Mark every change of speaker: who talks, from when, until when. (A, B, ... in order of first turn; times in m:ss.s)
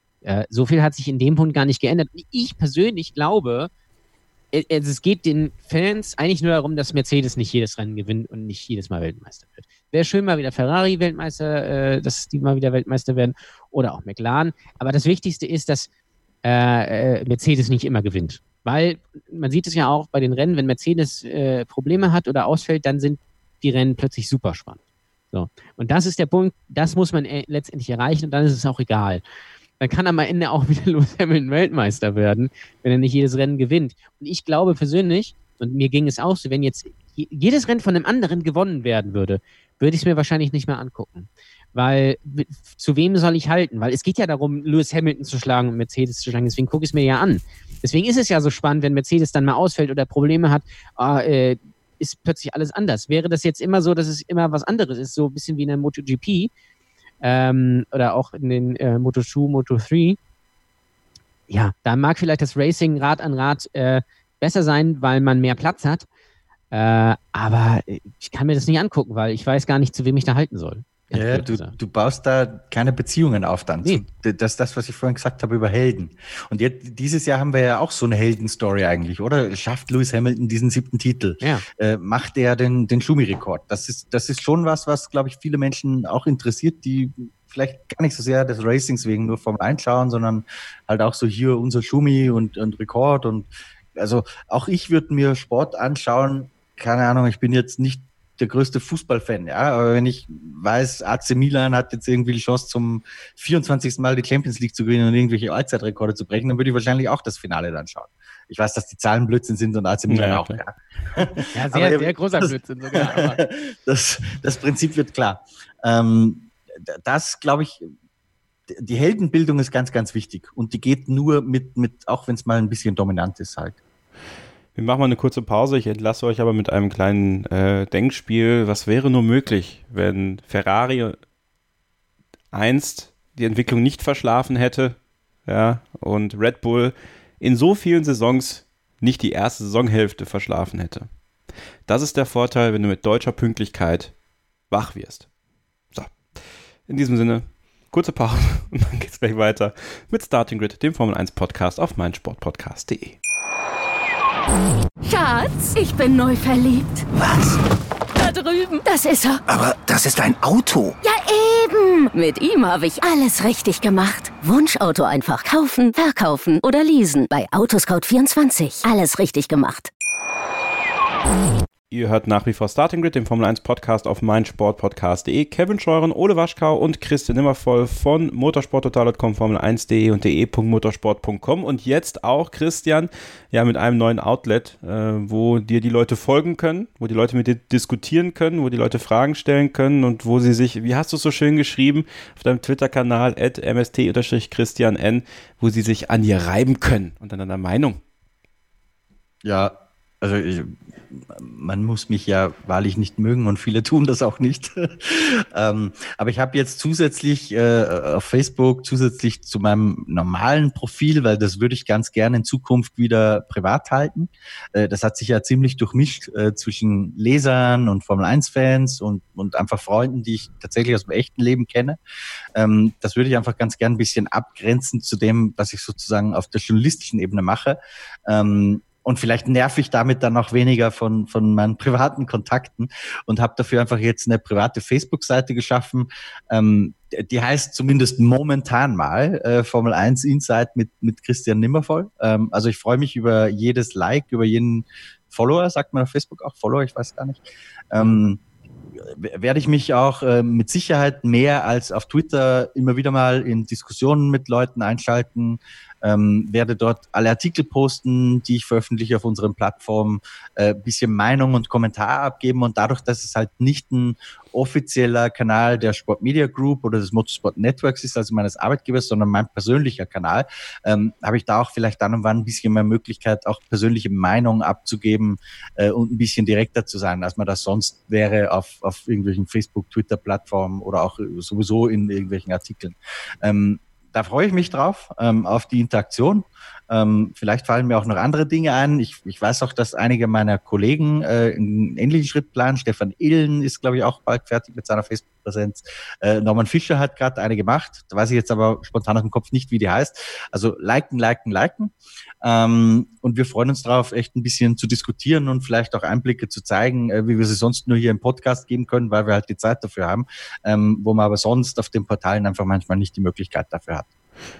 0:00.2-0:03.7 A
0:04.5-0:15.9 A
0:16.4-0:24.8 A
0:25.3-0:29.2 A
0:29.8-0:56.5 A
0:57.2-1:00.2 A
1:01.5-1:06.0 A
1:06.7-1:11.7 A
1:11.1-1:57.9 B
1:50.1-1:50.6 C
1:51.6-1:53.4 A
1:58.7-2:03.8 B
2:04.8-2:11.2 C
2:12.5-2:21.1 C
2:21.9-2:24.1 C
2:24.7-2:25.3 C
2:25.9-2:26.2 C
2:26.9-2:33.2 C
2:35.0-2:37.0 D
2:37.1-2:37.6 E
2:38.2-2:39.4 D
2:39.5-2:41.0 E
2:41.0-2:49.9 D
2:51.9-3:18.0 C
3:19.4-3:42.0 B
3:42.6-4:08.4 B
4:09.0-5:14.1 B